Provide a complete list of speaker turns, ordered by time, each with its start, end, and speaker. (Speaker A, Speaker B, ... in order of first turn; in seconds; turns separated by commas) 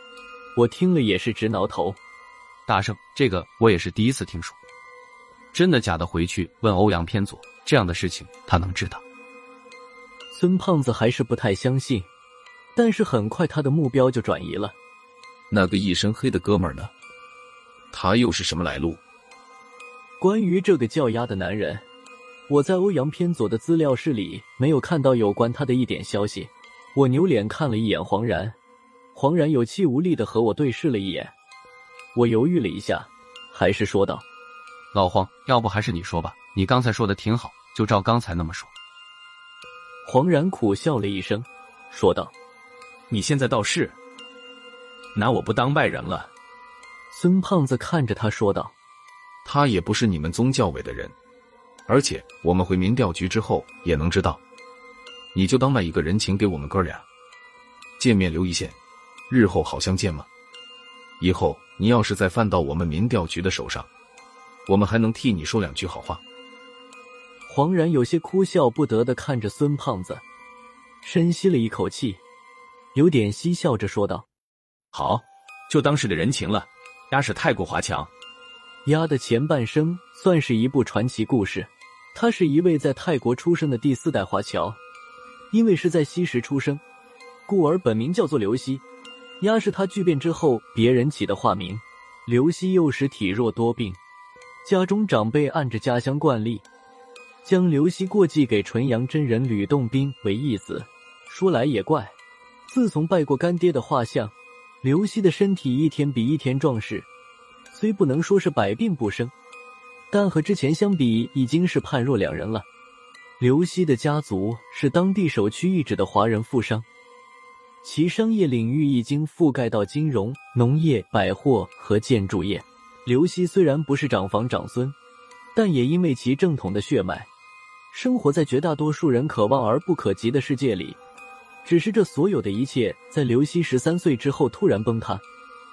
Speaker A: 0.6-2.0, Speaker B: 2.7-4.6, Speaker B: 5.5-9.0, Speaker A: 10.3-12.1, Speaker A: 12.8-14.8, Speaker C: 15.5-16.9, Speaker C: 17.9-19.0, Speaker A: 20.2-21.9, Speaker A: 22.5-28.6, Speaker A: 29.1-31.3, Speaker A: 32.1-34.2, Speaker B: 34.9-38.7, Speaker A: 40.0-42.3, Speaker D: 43.1-44.0, Speaker D: 45.1-46.3, Speaker A: 47.1-48.7, Speaker C: 49.5-51.1, Speaker C: 51.9-54.4, Speaker C: 55.3-57.1, Speaker C: 58.0-58.8, Speaker C: 59.3-60.3, Speaker C: 61.2-63.9, Speaker C: 64.7-66.2, Speaker A: 67.5-70.2, Speaker A: 71.0-72.2, Speaker A: 72.9-74.3, Speaker D: 74.9-78.1, Speaker A: 78.8-84.8, Speaker A: 85.5-86.8, Speaker A: 87.5-88.8, Speaker A: 89.4-94.0, Speaker A: 94.6-96.7, Speaker A: 97.4-102.2, Speaker A: 102.7-107.1, Speaker A: 107.7-109.3, Speaker A: 110.1-112.7, Speaker A: 113.4-116.9, Speaker A: 117.8-125.0, Speaker A: 125.5-127.3, Speaker A: 127.9-131.0, Speaker A: 131.6-135.2